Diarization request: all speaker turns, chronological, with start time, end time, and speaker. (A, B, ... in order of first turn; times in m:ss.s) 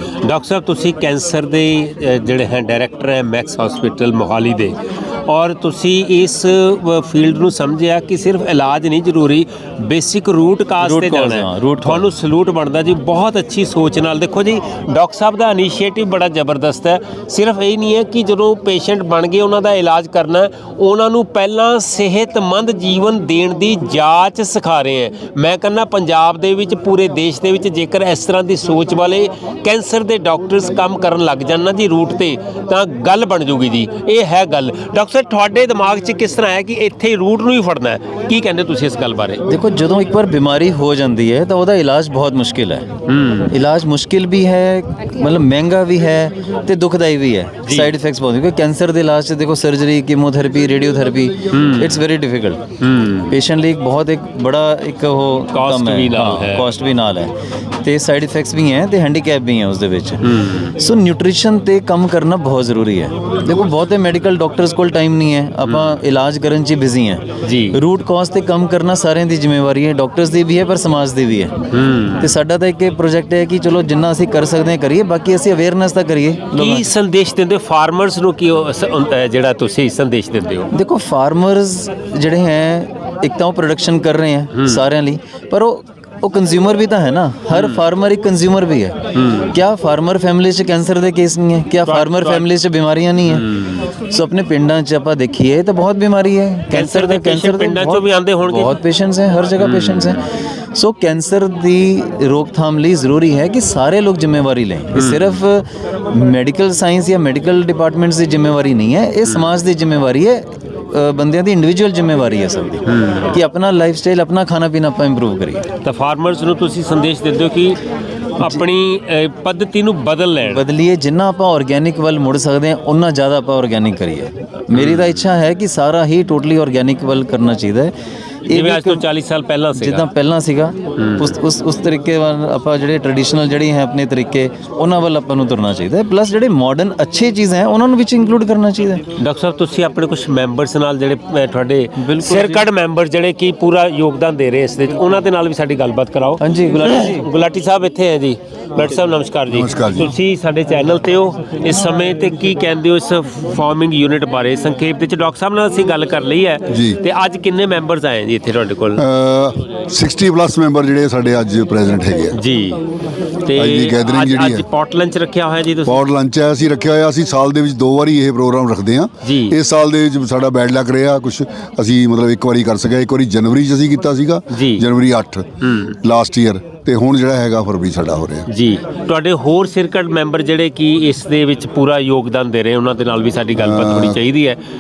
0:00.2-0:39.4 A
0:10.8-0:12.0 B
0:39.5-0:42.9 B
0:43.1-0:43.5 A
0:43.5-0:52.6 B
0:47.6-0:47.9 A
0:51.5-0:52.0 A
0:52.8-0:53.4 A
0:53.3-1:00.2 B
0:55.5-0:56.7 A
1:00.2-1:00.7 A
1:00.8-1:11.6 B
1:05.6-1:05.9 A
1:07.4-1:07.8 A
1:11.7-1:12.3 A
1:12.2-1:16.9 B
1:16.5-1:20.7 A
1:20.7-1:33.4 B
1:24.5-1:24.8 A
1:27.5-1:27.8 A
1:29.1-1:29.5 A
1:31.8-1:32.5 A
1:33.3-1:33.9 A
1:34.0-1:55.6 B
1:36.7-1:38.8 A
1:39.6-1:40.2 A
1:44.9-1:45.4 A
1:52.9-1:53.4 A
1:55.8-1:57.8 A
1:58.4-2:00.6 A
1:58.4-1:58.6 B
2:00.5-2:07.9 B
2:04.7-2:05.3 A
2:08.5-2:09.1 B
2:08.5-2:10.1 A
2:09.8-2:19.0 B
2:11.0-2:11.3 A
2:19.2-2:39.0 A
2:22.0-2:22.7 B
2:26.4-2:27.3 B
2:29.5-2:30.1 C
2:36.7-2:37.0 C
2:39.0-2:42.4 C
2:42.3-2:42.8 A
2:43.5-2:46.1 A
2:43.6-2:44.7 C
2:45.8-2:55.4 C
2:49.2-2:49.6 A
2:54.5-2:54.8 A
2:55.6-2:56.0 A
2:56.0-2:58.5 C
2:58.5-3:04.6 A
3:03.6-3:04.2 C